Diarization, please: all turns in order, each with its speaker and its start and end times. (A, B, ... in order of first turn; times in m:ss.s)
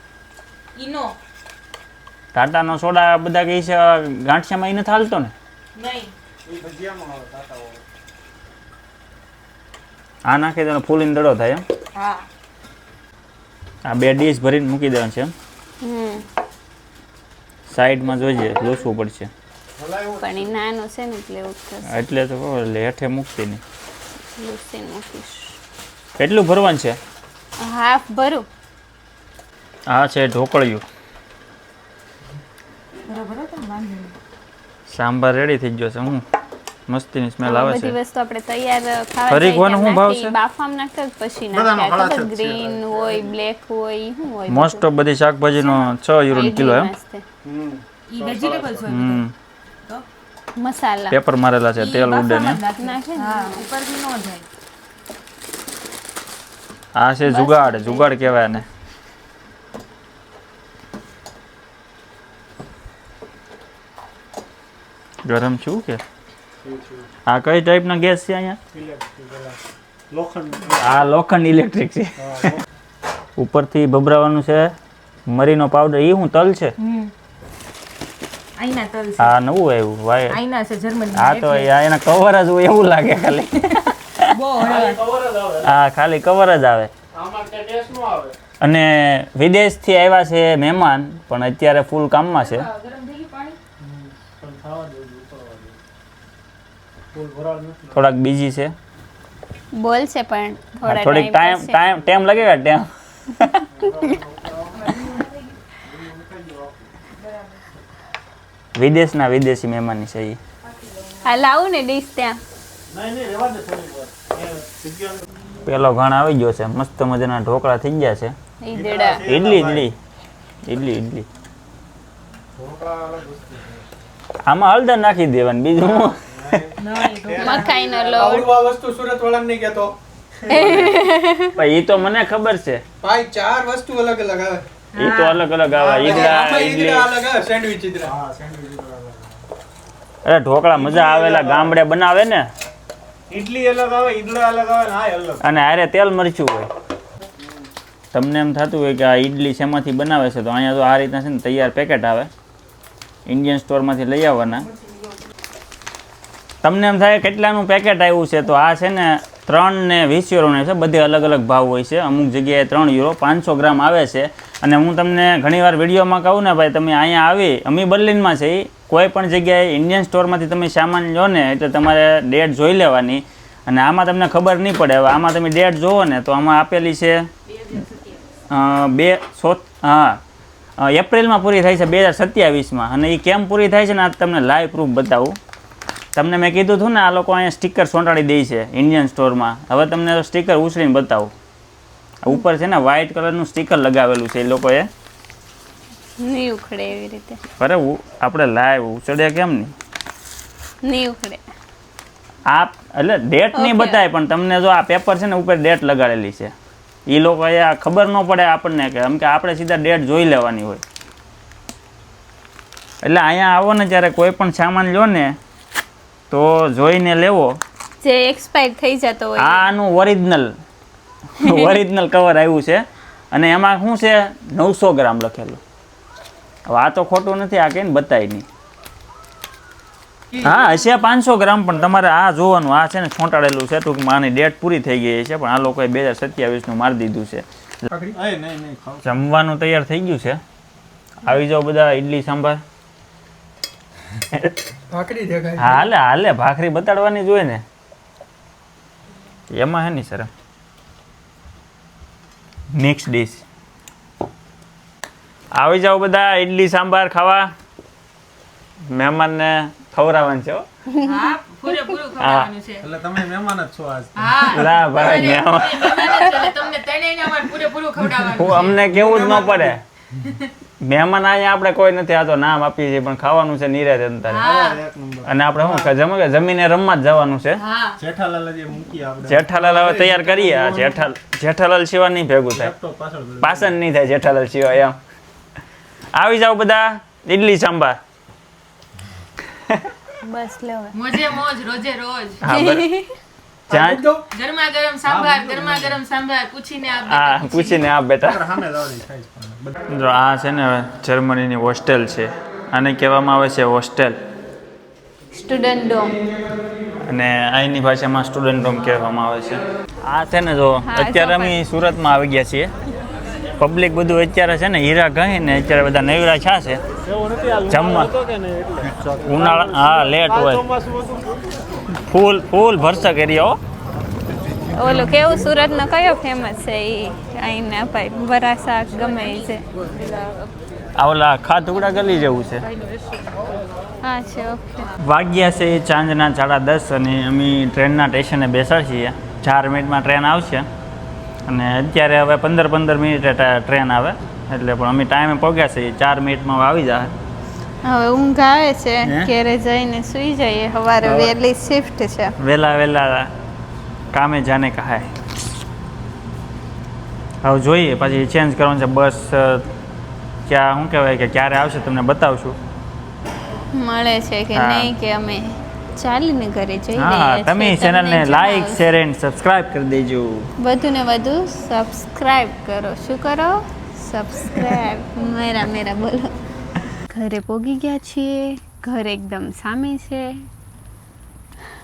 0:00.8-0:01.2 A
0:02.3-0:05.3 B
0:05.8-0:06.1 A
0:06.4-0:07.8 C
0:10.3-0:11.6 B
0:12.0-0:12.3 A
0:13.8-0:15.3 B
0:15.8-0:16.2 D
0:17.7-0:19.3 B
0:19.8-0:20.6 C
0:20.2-0:22.0 D
0:21.9-0:23.6 B
0:24.4-0:25.6 D
0:26.2-0:27.0 B
0:27.6-0:28.5 D
0:29.9-0:30.8 B
0:33.1-0:34.2 A
0:34.9-0:36.2 B
0:36.9-0:38.0 B
0:37.4-0:44.8 D
0:39.3-0:40.4 B
0:41.5-0:43.3 C
0:44.5-0:46.9 B
0:45.6-0:47.2 D
0:47.4-0:48.9 C
0:48.1-0:49.2 A
0:48.9-0:49.3 B
0:50.6-0:51.2 D
0:51.1-0:52.6 B
0:51.8-0:54.5 A
0:52.8-0:53.6 D
0:57.0-0:58.6 B
0:57.2-0:58.6 D
1:05.2-1:06.0 B
1:06.6-1:07.1 C
1:07.3-1:08.6 B
1:08.7-1:11.0 C
1:10.8-1:12.5 B
1:12.2-1:12.6 C
1:13.4-1:14.8 B
1:15.3-1:16.8 B
1:16.8-1:17.1 A
1:18.6-1:19.3 A
1:19.2-1:20.4 B
1:20.3-1:21.7 A
1:21.1-1:24.3 B
1:24.2-1:25.0 A
1:24.6-1:25.7 C
1:25.6-1:26.9 B
1:27.1-1:28.4 C
1:28.6-1:32.7 B
1:32.4-1:33.6 A
1:33.8-1:35.8 C
1:37.1-1:38.1 C
1:37.9-1:38.8 B
1:39.7-1:41.8 D
1:40.8-1:43.6 B
1:43.7-1:45.0 C
1:44.9-1:45.5 A
1:45.8-1:46.9 C
1:47.2-1:47.6 A
1:48.8-1:50.4 B
1:50.7-1:51.2 A
1:51.2-1:52.4 D
1:52.9-1:55.2 C
1:55.6-1:58.4 B
1:58.6-1:59.2 D
1:58.7-1:59.9 C
1:59.2-2:00.0 B
2:00.6-2:01.3 B
2:02.6-2:03.9 C
2:04.4-2:06.2 B
2:06.0-2:08.4 C
2:06.8-2:07.8 A
2:07.4-2:08.5 D
2:08.2-2:10.0 E
2:10.4-2:11.0 C
2:10.5-2:11.6 D
2:11.6-2:12.8 B
2:13.0-2:14.6 E
2:14.9-2:15.4 A
2:15.0-2:17.1 B
2:15.7-2:16.4 C
2:16.1-2:18.1 E
2:18.0-2:19.4 C
2:20.2-2:22.5 B
2:20.7-2:21.7 C
2:23.3-2:25.4 C
2:25.4-2:26.7 B
2:27.4-2:27.7 C
2:28.1-2:32.3 B
2:33.3-2:34.7 B
2:36.6-2:57.3 B
2:57.6-2:58.2 A
2:58.5-3:00.2 B
3:00.8-3:05.4 B
3:06.2-3:11.3 B
3:12.2-3:14.9 B
3:16.2-3:17.4 D
3:17.6-3:19.7 B
3:20.8-3:21.4 D
3:22.5-3:26.5 B
3:23.6-3:24.0 D
3:27.1-3:30.8 B
3:33.0-3:35.4 B
3:36.3-3:37.6 B
3:38.0-3:39.7 D
3:39.4-3:40.5 B
3:41.4-3:45.6 B
3:41.4-3:41.7 D
3:46.7-3:48.5 B
3:50.4-3:57.9 B
3:57.9-3:58.2 E
3:58.1-3:59.0 C
3:59.0-4:00.4 B
4:01.2-4:02.6 B
4:04.9-4:05.8 E
4:05.6-4:07.6 B
4:09.5-4:10.3 B
4:12.7-4:13.4 B
4:15.5-4:17.5 B
4:18.8-4:20.7 B
4:21.0-4:22.9 A
4:22.2-4:22.5 B
4:22.8-4:24.6 C
4:24.2-4:28.8 A
4:24.5-4:26.4 B
4:28.3-4:29.8 B
4:28.8-4:29.8 C
4:30.8-4:34.5 B
4:34.3-4:34.8 A
4:34.4-4:35.9 C
4:35.2-4:37.6 B
4:37.6-4:38.0 A
4:38.0-4:41.1 C
4:39.2-4:42.7 B
4:42.5-4:43.7 C
4:43.4-4:45.0 B
4:46.1-4:48.0 B
4:50.2-4:51.0 D
4:50.9-4:52.4 A
4:52.4-4:52.9 B
4:52.5-4:53.1 D
4:53.7-4:54.2 E
4:53.7-4:54.0 B
4:54.3-4:57.8 A
4:55.0-4:56.0 C
4:57.0-4:58.5 B
4:58.2-4:59.8 C
4:59.9-5:04.2 B
5:05.3-5:06.2 D
5:07.0-5:12.7 B
5:10.8-5:11.6 D
5:13.6-5:16.8 B
5:17.1-5:21.4 C
5:17.7-5:18.1 B
5:19.3-5:20.7 B
5:22.1-5:23.6 B
5:24.7-5:29.6 D
5:31.0-5:32.7 B
5:34.0-5:34.9 D
5:35.0-5:40.7 B
5:41.5-5:47.1 B
5:47.8-5:52.3 D
5:49.1-5:49.3 B
5:51.0-5:51.3 B
5:52.4-5:53.3 B
5:54.1-5:55.1 B
5:57.4-5:59.7 B
6:00.5-6:02.6 B
6:03.7-6:08.8 D
6:04.6-6:04.9 B
6:06.9-6:10.5 B
6:10.6-6:16.3 D
6:17.1-6:20.5 D